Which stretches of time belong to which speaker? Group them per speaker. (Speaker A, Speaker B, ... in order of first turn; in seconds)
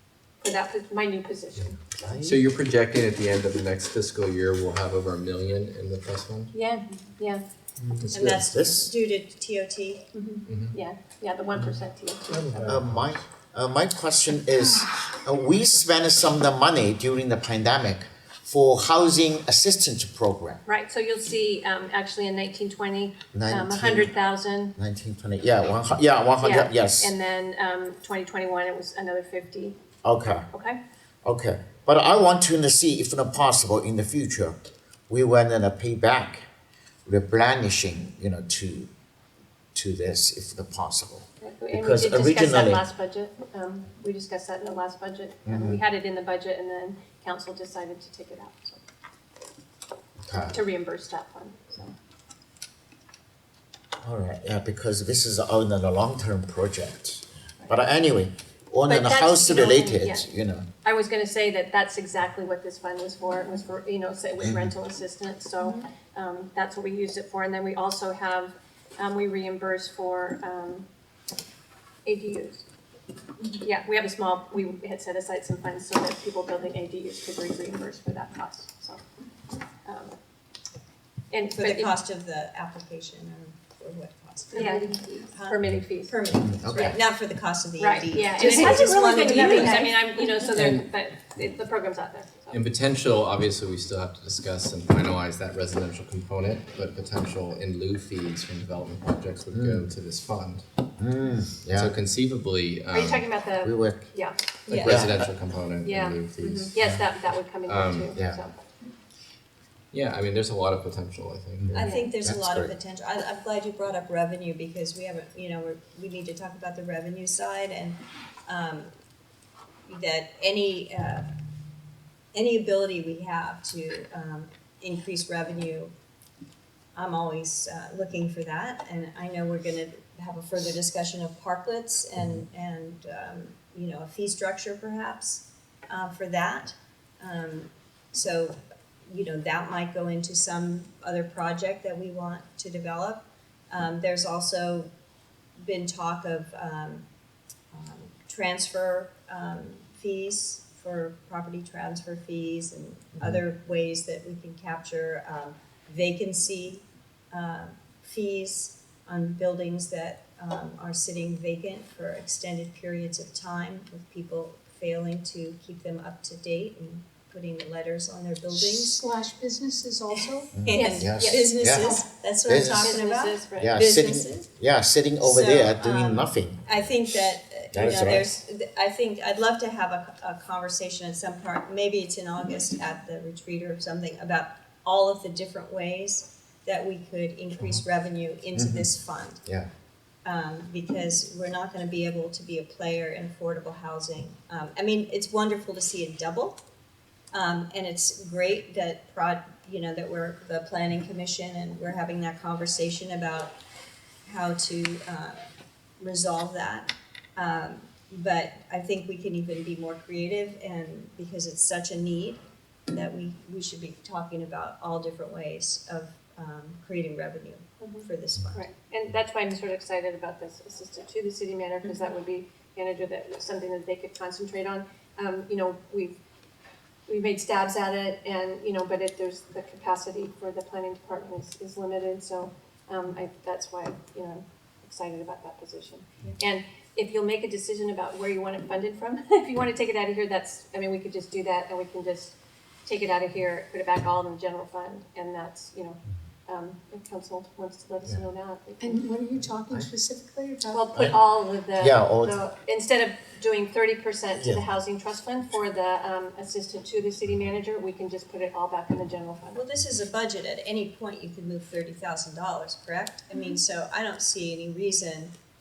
Speaker A: 0.4-2.3, 6.5-7.4, 10.1-12.5, 20.7-24.8, 26.4-29.8, 30.5-30.8, 41.4-48.8, 50.5-51.9, 58.9-60.3, 60.8-70.9, 72.0-72.7, 73.6-79.0, 79.8-80.1, 81.3-82.0, 84.5-87.0, 87.8-92.6, 102.9-104.4, 105.8-108.6, 111.8-112.1, 170.7-171.5, 172.8-173.8, 217.8-226.2, 227.1-249.1, 250.7-259.6
Speaker B: 1.9-2.4, 8.5-8.9, 12.7-20.6, 23.3-24.2, 24.8-27.1, 30.0-30.5, 31.2-36.5, 37.1-38.9, 39.8-42.8, 45.5-45.8, 50.2-50.6, 54.0-60.7, 64.4-64.7, 86.3-87.0, 99.5-99.8, 101.0-102.0, 103.6-104.1, 104.8-105.2, 108.2-108.4, 111.6-112.7, 170.6-172.9, 173.6-176.8, 177.7-178.3, 188.6-188.9, 251.8-252.4
Speaker C: 2.2-6.5, 7.8-8.4, 10.4-10.8, 90.5-90.9, 92.5-100.6, 101.7-103.3, 104.7-107.0, 107.7-108.1, 109.9-111.9
Speaker D: 8.1-10.1, 81.5-89.9, 104.7-105.1, 111.8-118.9, 119.9-121.3, 122.3-125.9, 127.0-144.9, 145.6-147.1, 147.7-169.0, 170.5-174.5, 175.2-189.4, 190.2-196.6, 197.3-203.6, 204.2-205.4, 206.0-218.6, 259.5-265.3
Speaker E: 84.5-85.3, 88.3-90.3, 168.5-170.6, 171.6-172.1, 248.8-250.9